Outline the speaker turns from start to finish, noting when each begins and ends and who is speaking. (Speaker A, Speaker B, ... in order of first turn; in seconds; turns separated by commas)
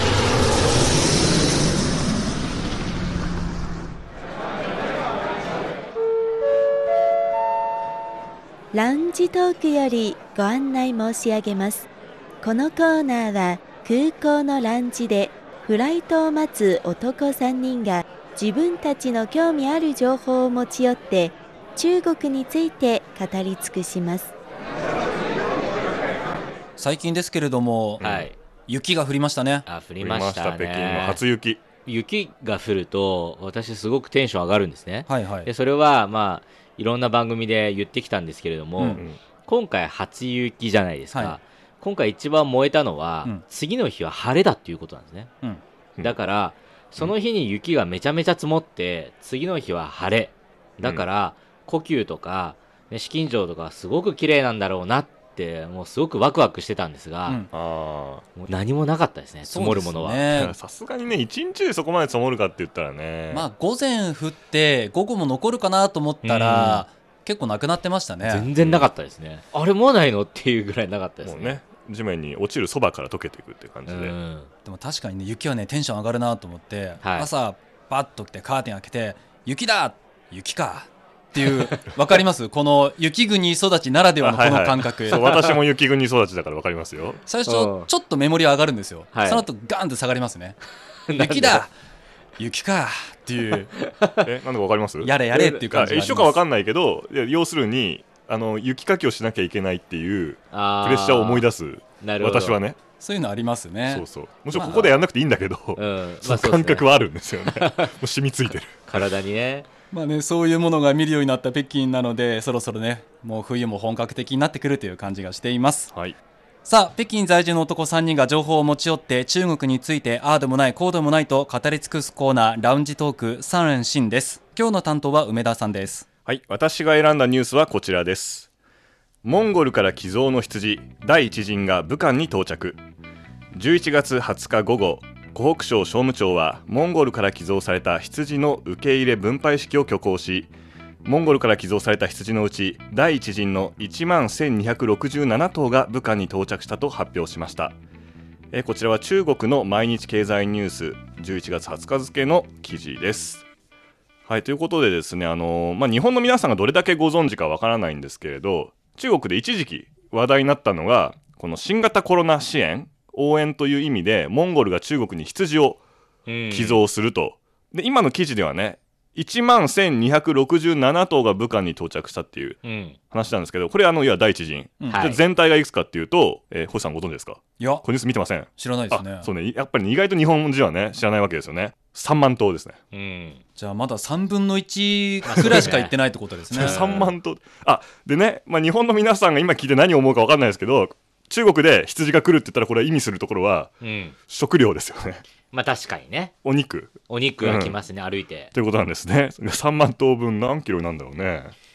Speaker A: 8.7-11.9, Speaker A: 12.4-24.3, Speaker B: 26.8-28.1, Speaker C: 28.0-28.3, Speaker D: 28.0-28.4, Speaker B: 28.7-29.6, Speaker D: 29.6-31.2, Speaker C: 30.0-31.6, Speaker D: 31.9-45.3, Speaker B: 35.1-35.5, Speaker B: 38.8-39.0, Speaker C: 38.9-39.2, Speaker B: 41.1-41.4, Speaker D: 46.0-57.4, Speaker B: 57.2-57.5, Speaker C: 57.5-58.2, Speaker D: 58.4-60.3, Speaker B: 59.5-60.5, Speaker C: 60.3-63.5, Speaker B: 63.3-68.5, Speaker D: 66.2-66.8, Speaker D: 68.2-71.6, Speaker C: 68.6-68.9, Speaker C: 71.2-74.1, Speaker D: 73.9-74.5, Speaker B: 74.6-85.3, Speaker D: 77.0-77.3, Speaker C: 84.2-87.2, Speaker D: 85.2-85.5, Speaker B: 87.2-90.6, Speaker D: 87.5-87.9, Speaker D: 89.1-89.5, Speaker D: 91.0-91.6, Speaker B: 91.1-91.7, Speaker B: 92.4-93.7, Speaker D: 93.8-94.2, Speaker C: 94.2-102.8, Speaker B: 95.0-96.4, Speaker D: 100.5-101.5, Speaker D: 102.0-102.6, Speaker B: 103.0-104.9, Speaker C: 103.9-109.0, Speaker D: 105.8-106.9, Speaker D: 107.4-107.9, Speaker D: 108.8-109.7, Speaker B: 109.9-115.9, Speaker B: 116.7-126.0, Speaker C: 126.3-128.5, Speaker C: 129.2-132.8, Speaker C: 133.5-140.5, Speaker C: 141.0-147.8, Speaker C: 148.5-153.4, Speaker C: 154.3-165.8, Speaker D: 166.3-166.8, Speaker C: 166.5-172.6, Speaker D: 172.6-173.0, Speaker C: 173.1-182.8, Speaker B: 174.8-175.1, Speaker D: 174.9-175.2, Speaker B: 177.6-177.8, Speaker B: 178.6-179.3, Speaker D: 182.9-183.4, Speaker B: 183.6-186.8, Speaker D: 185.2-186.0, Speaker C: 185.3-185.7, Speaker C: 186.5-193.7, Speaker D: 186.6-187.1, Speaker D: 193.8-194.1, Speaker C: 194.3-195.2, Speaker D: 195.5-196.3, Speaker C: 196.4-197.8, Speaker D: 197.1-198.5, Speaker C: 198.5-201.5